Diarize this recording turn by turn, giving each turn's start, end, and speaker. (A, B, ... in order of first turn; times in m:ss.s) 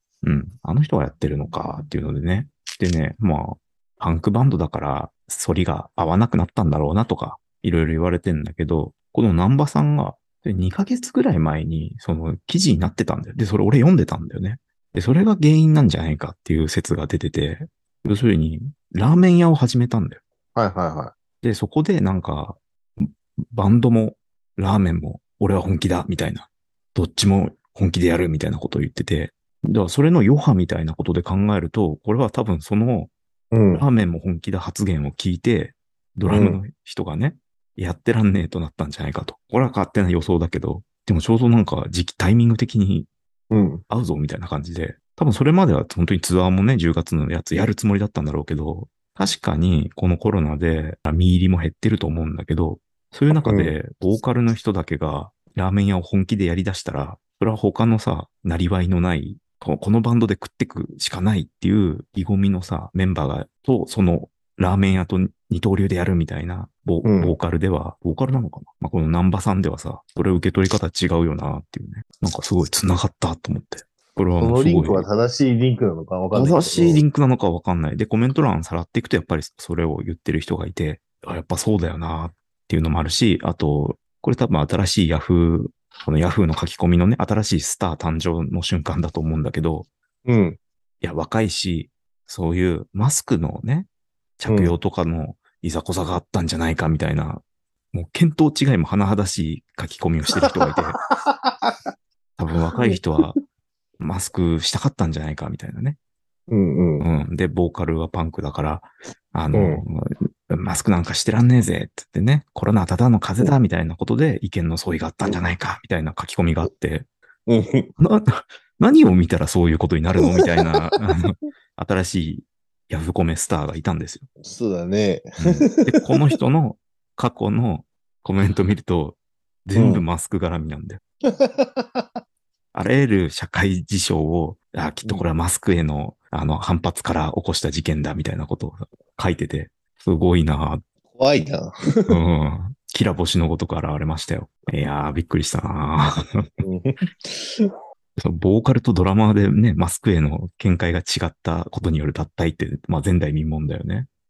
0:00.2-0:20.2 A
0:20.6-0:21.1 B
0:21.4-0:33.1 A
0:33.5-0:33.8 B
0:33.7-0:43.1 A
0:36.3-0:36.6 B
0:43.5-0:43.8 B
0:43.9-1:15.1 A
0:53.5-0:53.8 B
1:07.0-1:07.4 B
1:14.4-1:17.0 B
1:16.3-1:29.9 A
1:30.2-1:30.6 B
1:31.0-1:41.0 A
1:34.5-1:34.7 B
1:41.1-1:41.8 B
1:42.4-1:43.4 A
1:44.0-1:46.0 A
1:46.5-1:47.0 B
1:47.0-1:57.1 A
1:49.5-1:49.8 B
1:57.5-1:57.9 B
1:58.0-2:04.3 A
2:00.2-2:01.0 B
2:04.4-2:06.3 B
2:05.4-2:11.0 A
2:09.8-2:10.0 B
2:11.3-2:12.1 B
2:12.7-2:20.8 A
2:21.1-2:22.2 B
2:22.1-2:26.5 A
2:26.6-2:27.7 B
2:28.2-2:34.1 A